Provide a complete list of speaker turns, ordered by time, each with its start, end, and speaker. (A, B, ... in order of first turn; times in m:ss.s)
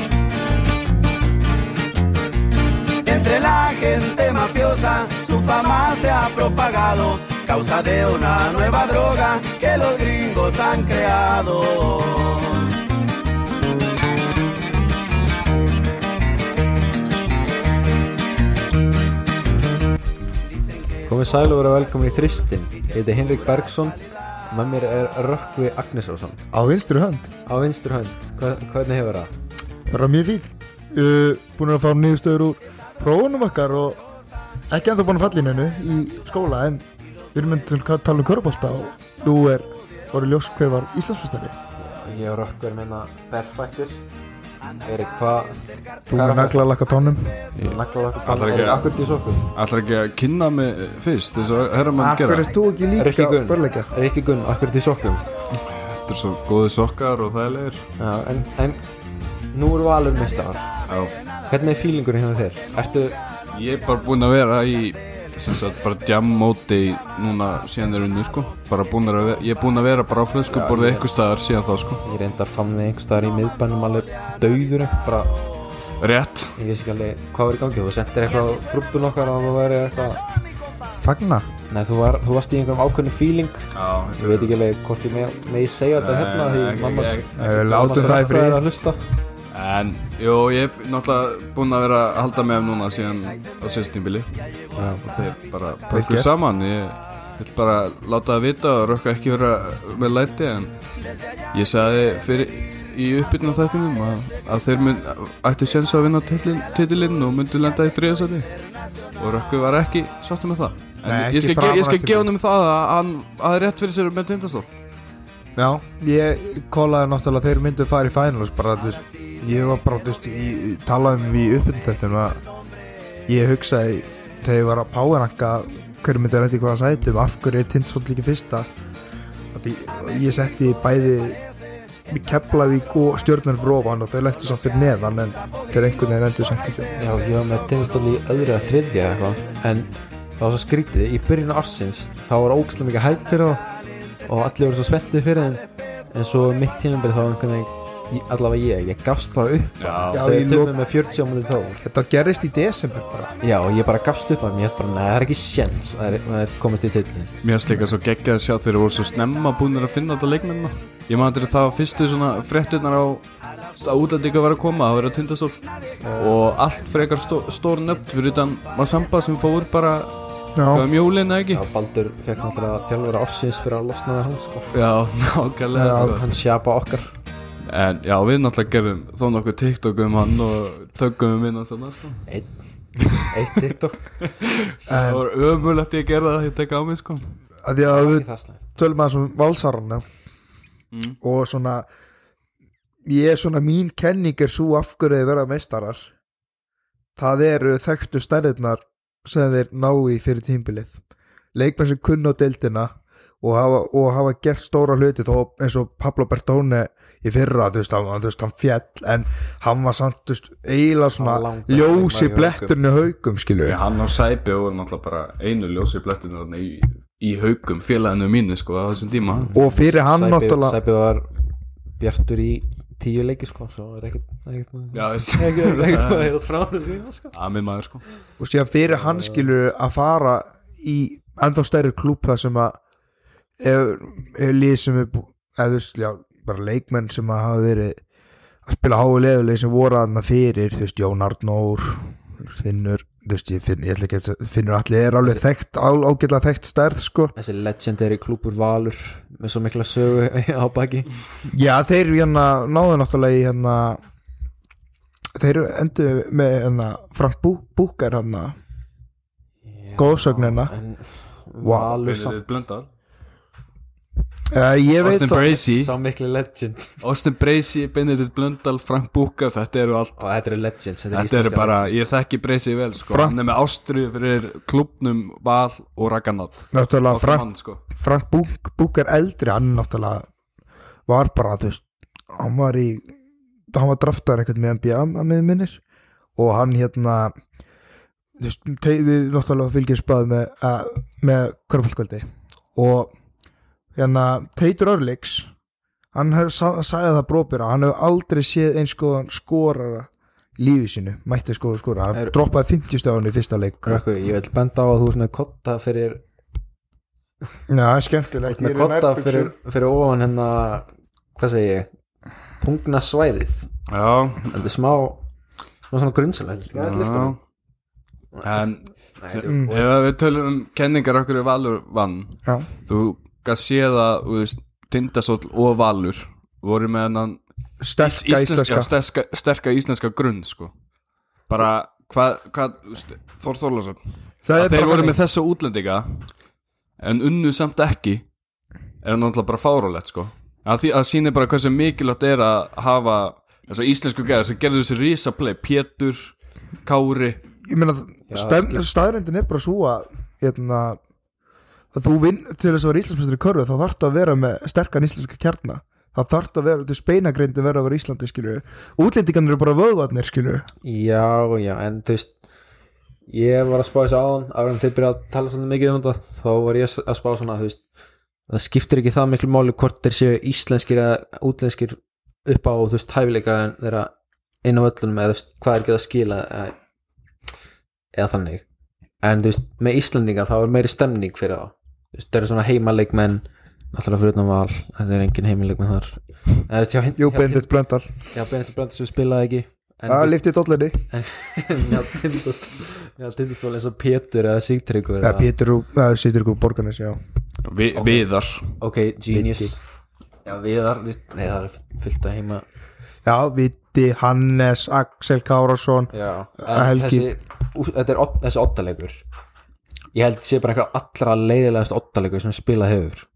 0:03.0-0:12.6 A
0:21.1-0:26.5 B
0:26.5-0:27.3 C
0:27.5-0:29.3 B
0:29.9-0:34.0 C
0:34.7-0:41.5 C
0:41.8-0:44.0 B
0:44.8-0:45.5 B
0:46.1-0:47.4 C
0:46.1-0:46.7 B
0:47.6-0:52.5 D
0:47.6-0:49.5 B
0:52.0-0:53.9 C
0:53.0-0:55.2 B
0:55.6-0:57.8 D
0:58.0-0:58.8 B
0:59.5-1:00.7 B
1:00.9-1:01.1 D
1:01.5-1:03.2 B
1:03.5-1:12.0 D
1:10.5-1:11.1 B
1:12.0-1:15.4 B
1:16.0-1:16.5 D
1:16.6-1:20.2 B
1:21.0-1:21.5 C
1:21.7-1:29.1 B
1:23.7-1:24.5 D
1:26.0-1:28.2 D
1:27.4-1:28.6 C
1:29.5-1:34.5 D
1:34.8-1:35.1 B
1:35.0-1:40.7 D
1:35.9-1:36.3 C
1:41.5-1:48.5 D
1:49.2-1:54.7 D
1:51.0-1:52.3 C
1:55.6-2:02.4 C
2:03.3-2:08.7 C
2:09.5-2:11.4 C
2:12.1-2:16.9 C
2:17.0-2:23.6 B
2:24.2-2:31.8 B
2:29.8-2:30.2 D
2:30.1-2:30.7 C
2:31.8-2:33.4 C
2:33.4-2:37.3 B
2:37.4-2:43.3 D
2:43.8-2:45.6 D
2:46.0-2:46.4 C
2:46.2-2:50.1 D
2:50.6-2:50.9 C
2:50.7-2:51.6 D
2:51.5-2:54.8 B
2:54.7-2:56.2 D
2:55.8-2:56.2 C
2:55.8-2:57.1 B
2:57.7-3:02.2 D
3:02.3-3:02.5 B
3:03.2-3:04.1 B
3:04.2-3:07.3 D
3:04.9-3:05.2 C
3:07.6-3:10.0 C
3:07.9-3:08.6 B
3:10.9-3:11.2 D
3:11.2-3:11.9 C
3:13.0-3:16.1 C
3:17.2-3:21.0 C
3:21.6-3:33.8 C
3:31.2-3:32.8 B
3:33.6-3:39.5 D
3:39.3-3:41.3 B
3:39.5-3:40.8 C
3:42.0-3:47.4 B
3:44.9-3:46.3 D
3:47.3-3:48.0 D
3:48.4-3:52.8 C
3:48.9-3:49.5 B
3:53.6-3:58.0 C
3:58.7-4:07.3 C
4:07.4-4:11.1 B
4:11.5-4:14.0 C
4:15.4-4:18.6 C
4:19.6-4:22.4 B
4:20.0-4:20.7 C
4:21.6-4:21.9 C
4:21.9-4:22.9 D
4:24.5-4:25.4 C
4:25.0-4:25.9 D
4:25.1-4:27.0 B
4:27.0-4:30.2 D
4:30.2-4:32.1 B
4:31.1-4:37.8 D
4:33.0-4:33.4 C
4:36.7-4:40.3 C
4:41.1-4:43.1 C
4:43.7-4:45.8 C
4:46.4-4:47.3 C
4:48.4-4:53.1 C
4:54.0-4:55.5 C
4:56.1-5:04.0 C
5:03.8-5:06.2 B
5:07.7-5:09.5 C
5:08.5-5:11.9 B
5:12.6-5:13.7 B
5:13.9-5:14.5 D
5:14.5-5:15.2 B
5:15.9-5:17.4 B
5:16.7-5:17.4 D
5:18.4-5:27.4 D
5:19.2-5:19.8 B
5:27.8-5:28.9 C
5:28.0-5:30.7 D
5:31.5-5:34.0 D
5:34.4-5:35.2 C
5:34.6-5:36.3 D
5:37.0-5:38.2 D
5:39.0-5:47.4 D
5:47.6-5:51.0 C
5:48.3-5:48.9 B
5:51.9-6:00.7 C
6:00.8-6:02.4 B
6:03.3-6:07.8 B
6:08.5-6:14.1 B
6:14.6-6:16.8 B
6:18.2-6:18.6 B
6:19.2-6:27.7 B
6:27.2-6:28.1 C
6:28.3-6:30.4 B
6:30.1-6:31.0 C
6:31.1-6:35.5 B
6:35.2-6:37.2 C
6:37.6-6:38.7 D
6:38.0-6:38.2 B
6:38.8-6:39.8 B
6:39.3-6:39.7 C
6:40.4-6:42.6 B
6:43.2-6:47.3 C
6:46.1-6:49.2 B
6:50.1-6:53.3 B